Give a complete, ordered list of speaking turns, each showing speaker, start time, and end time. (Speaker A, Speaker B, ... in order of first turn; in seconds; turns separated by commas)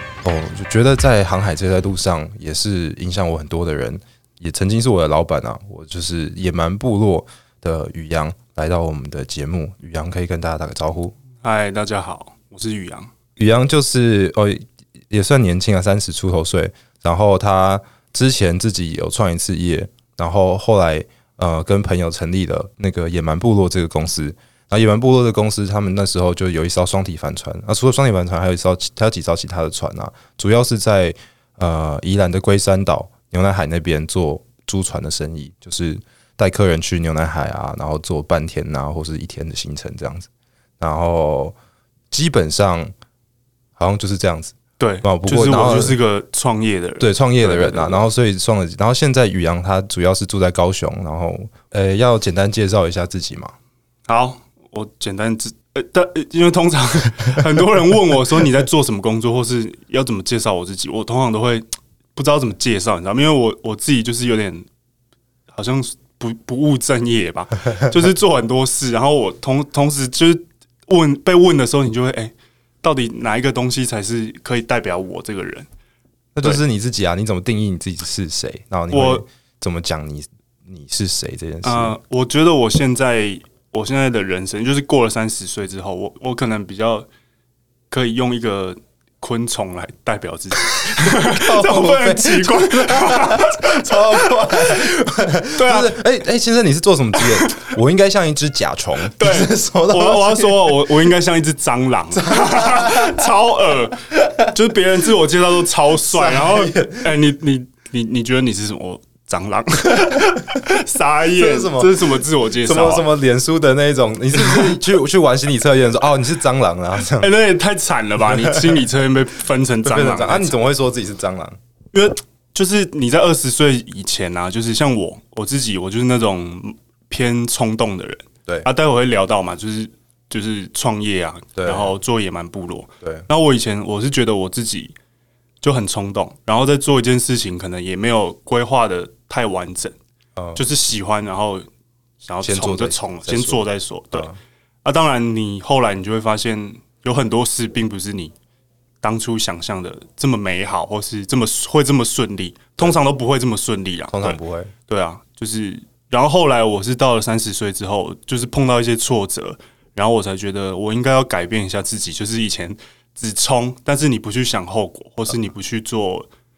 Speaker A: 0.2-11.2, Speaker B: 11.4-13.1, Speaker A: 13.4-40.3, Speaker A: 40.8-41.5, Speaker A: 42.1-42.9, Speaker A: 43.8-46.0, Speaker B: 44.8-48.0, Speaker A: 47.0-53.5, Speaker B: 54.1-61.6, Speaker B: 62.2-64.7, Speaker B: 65.5-75.7, Speaker A: 76.3-81.9, Speaker B: 78.9-79.2, Speaker B: 81.6-87.1, Speaker B: 87.9-94.9, Speaker A: 90.8-100.8, Speaker B: 95.5-96.0, Speaker B: 97.2-97.7, Speaker B: 99.1-113.1, Speaker A: 102.1-103.2, Speaker A: 106.1-107.1, Speaker A: 110.0-110.3, Speaker A: 111.3-112.0, Speaker A: 112.7-117.3, Speaker B: 117.2-120.6, Speaker A: 118.2-118.9, Speaker A: 119.8-121.6, Speaker B: 121.9-134.9, Speaker A: 131.6-131.9, Speaker A: 133.0-133.3, Speaker B: 135.6-140.0, Speaker A: 140.4-140.6, Speaker B: 140.6-141.7, Speaker B: 142.2-144.3, Speaker A: 142.4-144.4, Speaker B: 144.8-148.3, Speaker B: 149.0-166.3, Speaker A: 154.1-154.7